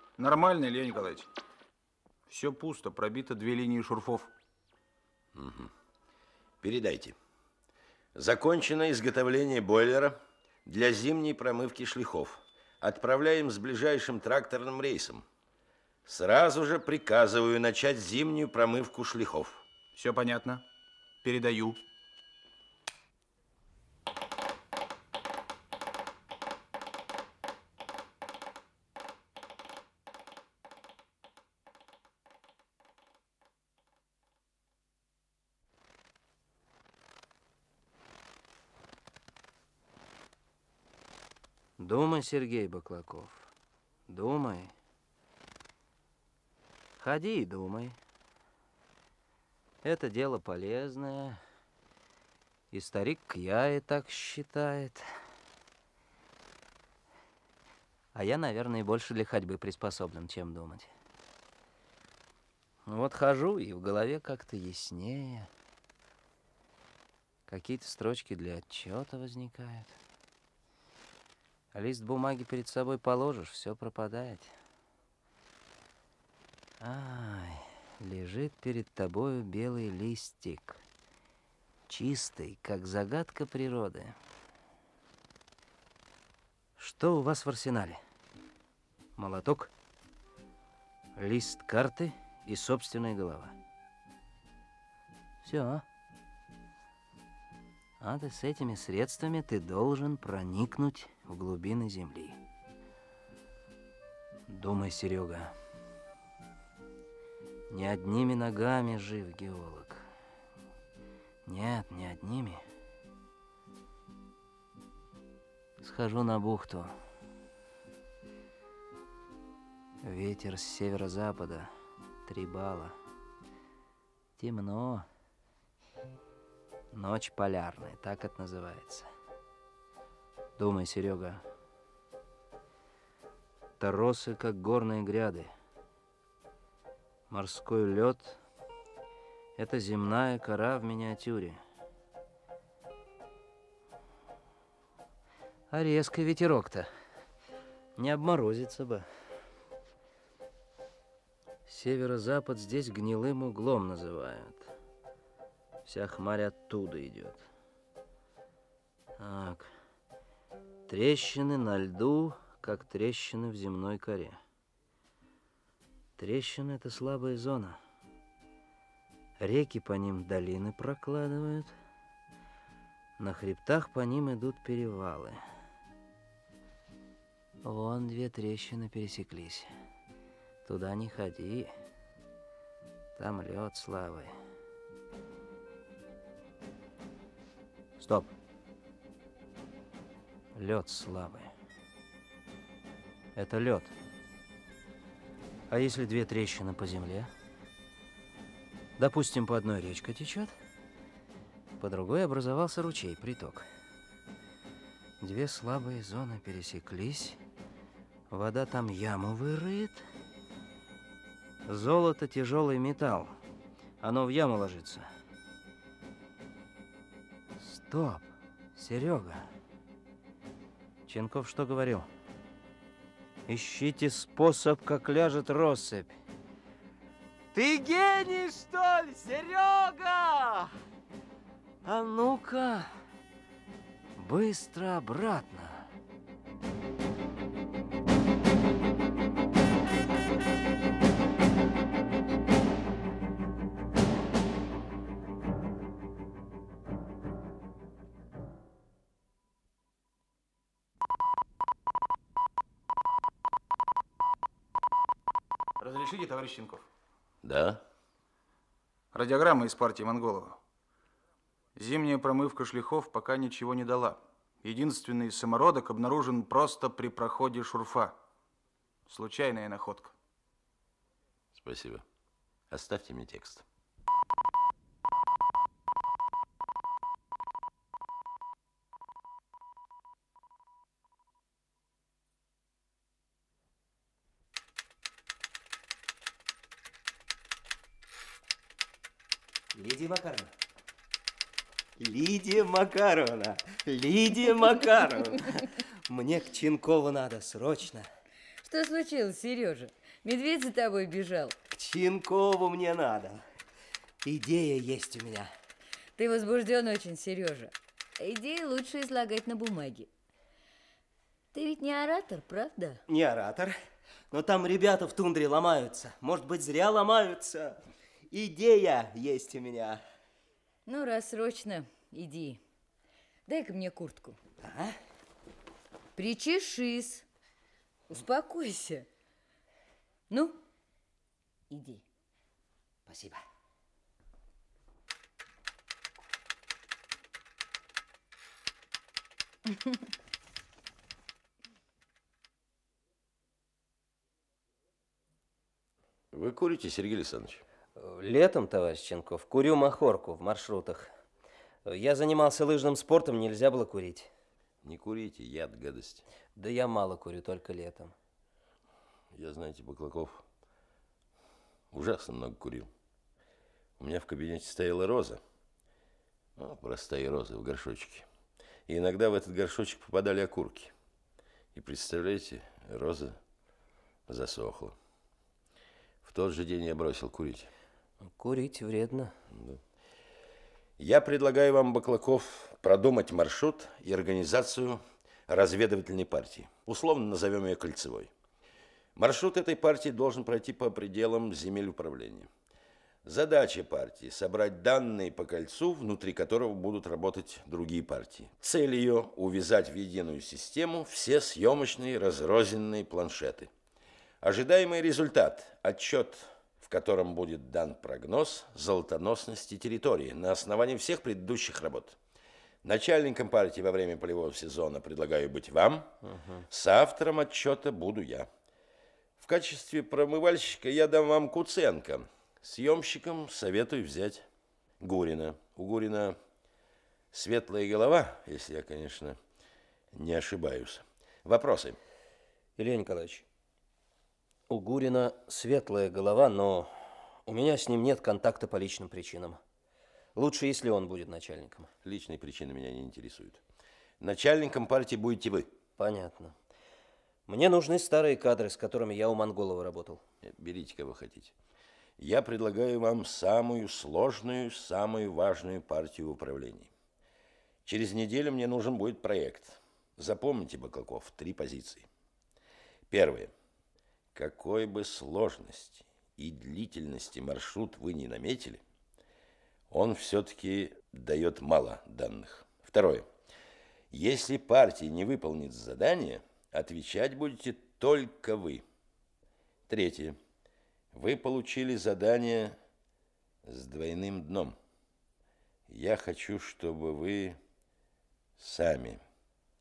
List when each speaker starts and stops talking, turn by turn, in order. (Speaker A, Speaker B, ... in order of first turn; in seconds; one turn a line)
Speaker A: 0.2-1.3
Speaker A: 2.3-4.3
Speaker B: 5.3-5.7
Speaker B: 6.6-7.2
Speaker B: 8.2-15.2
Speaker B: 16.1-19.6
Speaker A: 19.9-20.7
Speaker A: 21.2-21.8
Speaker C: 41.8-43.5
Speaker C: 44.1-44.7
Speaker C: 47.0-48.0
Speaker C: 49.8-51.4
Speaker C: 52.7-55.0
Speaker C: 58.1-60.9
Speaker C: 62.9-65.5
Speaker C: 67.5-70.0
Speaker C: 71.7-74.5
Speaker C: 76.8-80.8
Speaker C: 81.9-84.2
Speaker C: 86.8-88.0
Speaker C: 89.2-89.7
Speaker C: 91.2-93.5
Speaker C: 95.4-95.8
Speaker C: 98.0-102.4
Speaker C: 104.5-105.5
Speaker C: 107.7-110.1
Speaker C: 111.5-112.6
Speaker C: 115.8-116.9
Speaker C: 120.0-121.7
Speaker C: 122.3-123.0
Speaker C: 124.4-125.1
Speaker C: 126.9-129.1
Speaker C: 130.6-131.4
Speaker C: 133.8-135.5
Speaker C: 137.3-138.4
Speaker C: 139.6-141.6
Speaker C: 145.7-146.9
Speaker C: 148.0-149.1
Speaker C: 151.7-154.7
Speaker C: 155.9-157.5
Speaker C: 159.2-159.7
Speaker C: 160.9-164.4
Speaker C: 166.2-167.8
Speaker C: 169.4-171.8
Speaker C: 173.2-175.4
Speaker C: 177.6-179.7
Speaker C: 180.7-181.7
Speaker C: 183.2-184.3
Speaker C: 188.0-188.3
Speaker C: 190.5-191.5
Speaker C: 193.4-193.9
Speaker C: 195.7-197.3
Speaker C: 199.0-200.6
Speaker C: 201.8-203.7
Speaker C: 205.2-207.4
Speaker C: 208.3-210.1
Speaker C: 211.7-213.4
Speaker C: 214.0-215.1
Speaker C: 217.6-219.5
Speaker C: 221.1-222.1
Speaker C: 223.5-226.2
Speaker C: 227.5-230.7
Speaker C: 231.8-232.9
Speaker C: 234.2-235.9
Speaker A: 255.8-256.9
Speaker B: 257.4-257.8
Speaker A: 259.1-260.6
Speaker A: 261.8-268.2
Speaker A: 269.1-270.1
Speaker B: 271.5-272.0
Speaker B: 272.7-273.6
Speaker C: 289.7-290.5
Speaker C: 292.0-298.1
Speaker D: 298.6-301.6
Speaker C: 301.7-303.4
Speaker C: 304.2-305.5
Speaker D: 306.2-310.1
Speaker D: 311.5-313.0
Speaker C: 313.1-313.8
Speaker C: 314.3-320.0
Speaker D: 320.9-322.6
Speaker D: 323.5-324.4
Speaker C: 324.6-325.0
Speaker D: 326.2-327.2
Speaker D: 328.1-329.1
Speaker D: 330.3-330.6
Speaker D: 331.7-332.0
Speaker C: 333.1-333.4
Speaker B: 346.3-347.6
Speaker C: 348.0-351.1
Speaker C: 351.9-354.3
Speaker B: 354.8-356.2
Speaker C: 356.6-358.1
Speaker B: 359.3-360.4
Speaker B: 361.9-362.9
Speaker B: 364.0-365.4
Speaker B: 366.6-368.3
Speaker B: 368.9-370.9
Speaker B: 371.8-373.4
Speaker B: 374.3-375.0
Speaker B: 376.2-377.7
Speaker C: 378.2-379.4
Speaker B: 379.5-379.8
Speaker B: 381.0-388.3
Speaker B: 389.2-392.5
Speaker B: 393.2-403.7
Speaker B: 404.4-412.2
Speaker B: 412.8-416.1
Speaker C: 416.2-416.6
Speaker B: 416.7-418.5
Speaker B: 419.4-424.5
Speaker B: 425.0-426.4
Speaker B: 427.3-429.4
Speaker B: 430.1-432.0
Speaker C: 432.8-433.5
Speaker C: 434.7-436.9
Speaker C: 437.5-439.6
Speaker C: 440.4-441.9
Speaker B: 442.0-443.6
Speaker B: 444.2-445.7
Speaker C: 446.0-446.6
Speaker C: 447.5-450.2
Speaker B: 450.4-451.5
Speaker B: 452.2-456.9
Speaker B: 457.9-462.1
Speaker B: 463.1-463.5
Speaker B: 464.4-468.8
Speaker B: 469.9-473.3
Speaker B: 474.1-478.8
Speaker B: 479.9-480.4
Speaker B: 481.1-482.8
Speaker B: 483.6-484.8
Speaker B: 485.9-487.6
Speaker B: 488.6-489.2